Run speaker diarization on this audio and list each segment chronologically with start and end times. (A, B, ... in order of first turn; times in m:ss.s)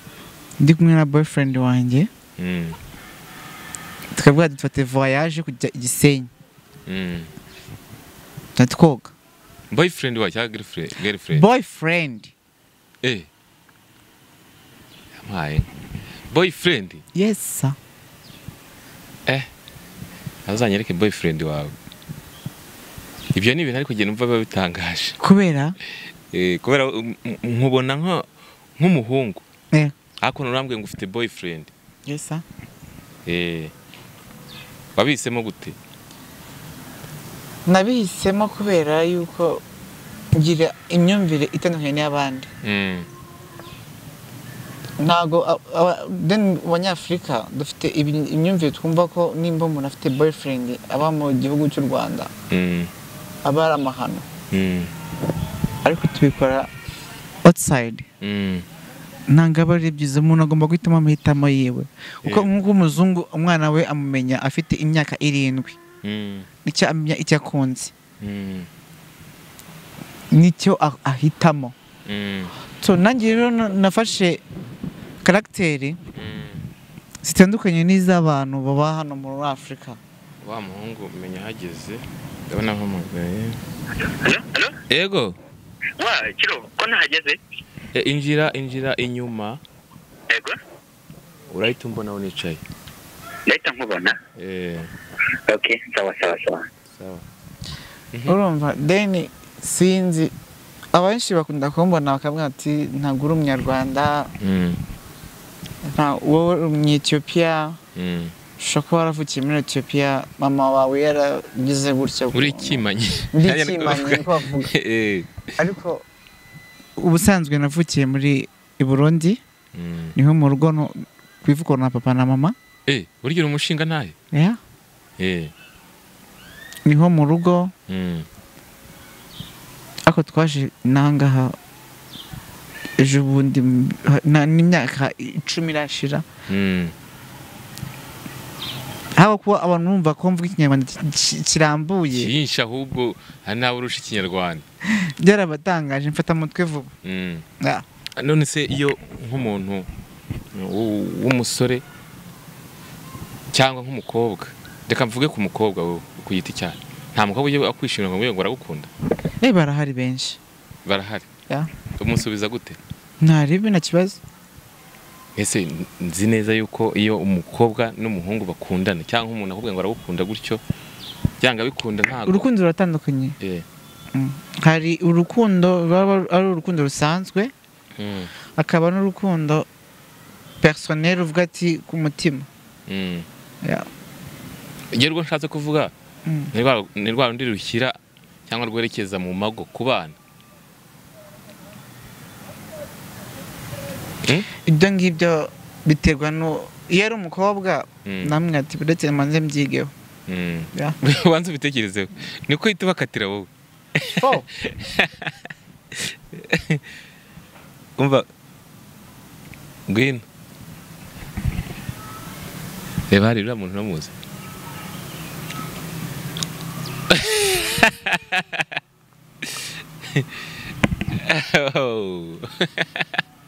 0:00.6-0:02.1 A
0:02.4-0:02.8 B
0:04.1-0:06.3 A
0:06.9-0:07.3 B
0:08.6-0:09.1 A
0:09.7-0:11.4 B
0:11.3-0:12.3 A
0:15.2-0:15.7 B
0:16.3-0:17.0 B
0:17.1-0:17.8 A
0:20.5-0:21.7 B
0:23.4-0:25.2 B
0:25.2-0:25.8 A
0:26.3-0:28.2 B
0:28.8-0:29.4 B
0:30.2-0:31.7 B
0:32.1-0:32.4 A
0:33.3-0:33.7 B
0:35.0-0:35.8 B
0:37.7-0:39.6 A
0:40.4-0:42.5 A
0:42.6-0:43.1 B
0:45.0-0:52.3 A
0:52.5-0:52.9 B
0:53.4-0:54.3 A
0:54.5-0:54.9 B
0:55.8-0:56.7 A
0:57.4-0:58.1 A
0:58.2-0:58.7 B
0:59.3-1:05.8 A
1:06.0-1:06.5 B
1:06.6-1:07.9 A
1:08.2-1:08.7 B
1:10.3-1:11.8 A
1:12.1-1:12.5 B
1:12.8-1:14.4 A
1:15.2-1:16.0 A
1:16.2-1:16.7 B
1:17.2-1:20.0 A
1:20.4-1:23.6 B
1:24.0-1:24.8 C
1:24.9-1:25.4 B
1:26.0-1:27.4 C
1:27.9-1:29.6 B
1:30.3-1:30.6 C
1:31.5-1:32.6 B
1:33.5-1:34.2 C
1:34.4-1:34.9 B
1:35.5-1:36.7 C
1:36.9-1:37.2 B
1:38.3-1:40.3 A
1:40.9-1:44.3 A
1:44.4-1:44.8 B
1:45.8-1:47.8 A
1:48.0-1:48.3 B
1:48.6-1:52.8 A
1:52.3-1:55.5 B
1:53.3-1:54.7 A
1:55.6-1:56.0 A
1:57.0-1:59.4 A
1:59.8-2:00.1 B
2:00.2-2:02.6 A
2:02.9-2:04.2 B
2:04.3-2:04.6 A
2:05.2-2:05.5 B
2:06.9-2:07.7 A
2:07.9-2:08.3 B
2:10.1-2:11.6 A
2:13.0-2:16.3 A
2:16.5-2:16.9 B
2:19.2-2:22.3 A
2:22.1-2:24.6 B
2:24.9-2:26.9 A
2:27.0-2:27.4 B
2:28.2-2:29.9 B
2:30.5-2:31.8 B
2:33.5-2:38.9 B
2:39.4-2:40.4 A
2:40.8-2:41.3 B
2:42.0-2:42.8 B
2:43.2-2:44.2 A
2:45.4-2:50.6 B
2:51.4-2:52.5 B
2:52.3-2:53.4 A
2:54.1-2:57.5 A
2:58.0-2:58.3 B
2:58.6-2:59.7 A
3:00.6-3:02.5 A
3:02.9-3:03.3 B
3:04.9-3:05.9 B
3:06.3-3:06.5 A
3:06.5-3:10.2 B
3:14.7-3:19.9 A
3:18.0-3:18.4 B
3:20.3-3:25.4 B
3:24.1-3:24.5 A
3:25.9-3:26.8 B
3:28.0-3:28.3 B
3:29.9-3:30.2 B
3:33.1-3:34.2 B
3:37.1-3:38.7 B
3:39.4-3:40.3 B
3:41.2-3:43.1 B